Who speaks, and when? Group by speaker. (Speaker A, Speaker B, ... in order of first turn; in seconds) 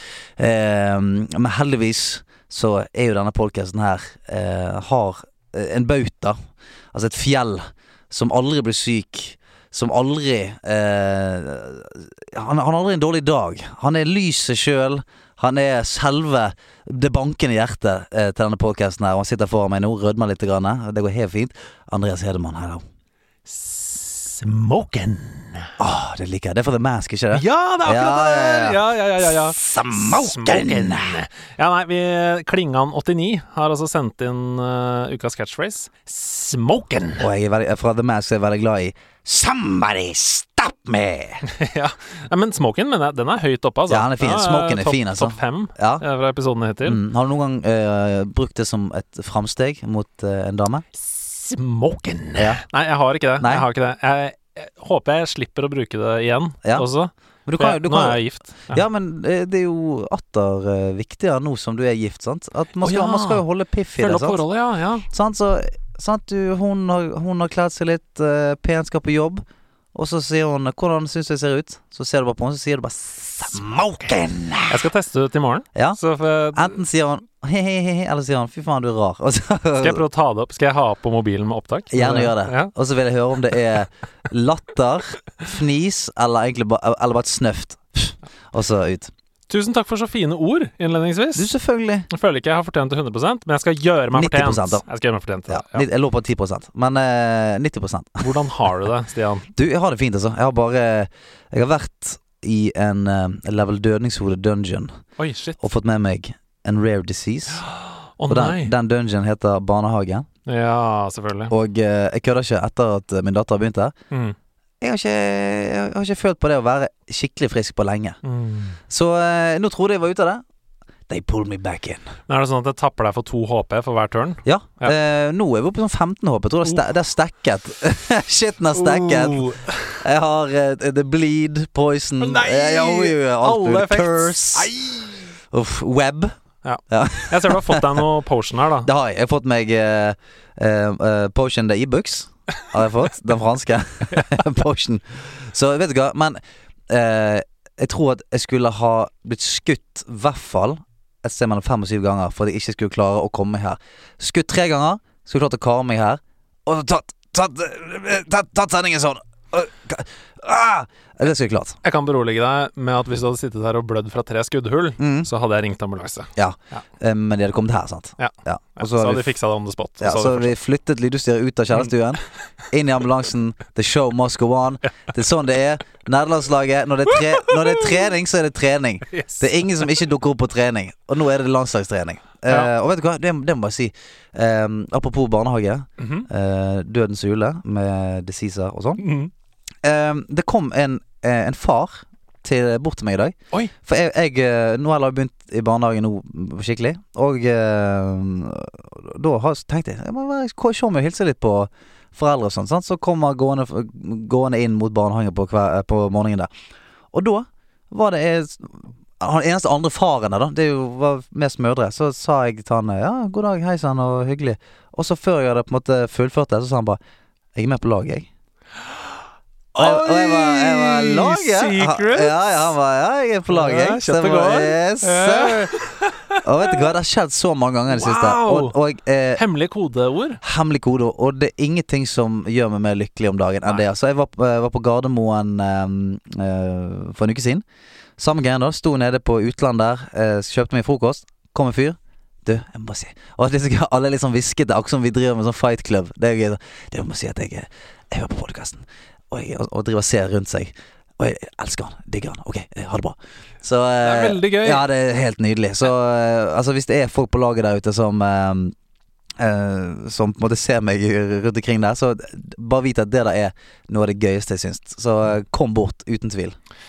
Speaker A: 0.4-6.3, 6.9-22.8, 25.8-31.2, 37.2-41.4, 43.9-46.0, 46.8-50.8, 52.4-52.6, 53.4-53.6, 57.5-64.4, 65.1-74.8, 76.5-80.0, 81.9-89.1, 91.3-92.1, 94.1-94.8, 95.5-98.3, 99.5-104.9, 105.6-107.6, 108.3-110.3, 111.5-113.9, 114.8-118.2, 118.9-120.4, 121.1-122.1, 124.4-129.5, 130.0-134.7, 135.5-136.3, 136.9-138.0, 138.8-161.8, 165.0-165.3, 166.3-169.3, 170.0-189.0, 189.8-206.5, 207.1-217.0, 217.5-218.3, 219.8-225.8, 226.4-229.4, 230.4-237.6, 238.2-258.7, 259.4-266.6
Speaker B: 23.5-25.7, 27.3-37.3, 41.5-47.0, 51.0-58.8, 62.8-63.4, 64.0-65.0, 74.7-76.8, 79.8-82.7, 89.5-91.5, 92.1-95.8, 98.2-99.5, 105.2-105.6, 107.5-108.7, 110.5-111.5, 114.1-114.3, 118.2-118.8, 122.3-124.9, 128.7-130.0, 132.2-135.3, 136.6-138.9, 161.8-166.8, 168.2-170.5, 174.8-175.1, 177.1-178.1, 179.1-179.9, 186.0-186.3, 189.0-189.3, 219.7-222.3, 223.5-226.4, 227.9-228.7, 229.3-230.4, 254.0-254.8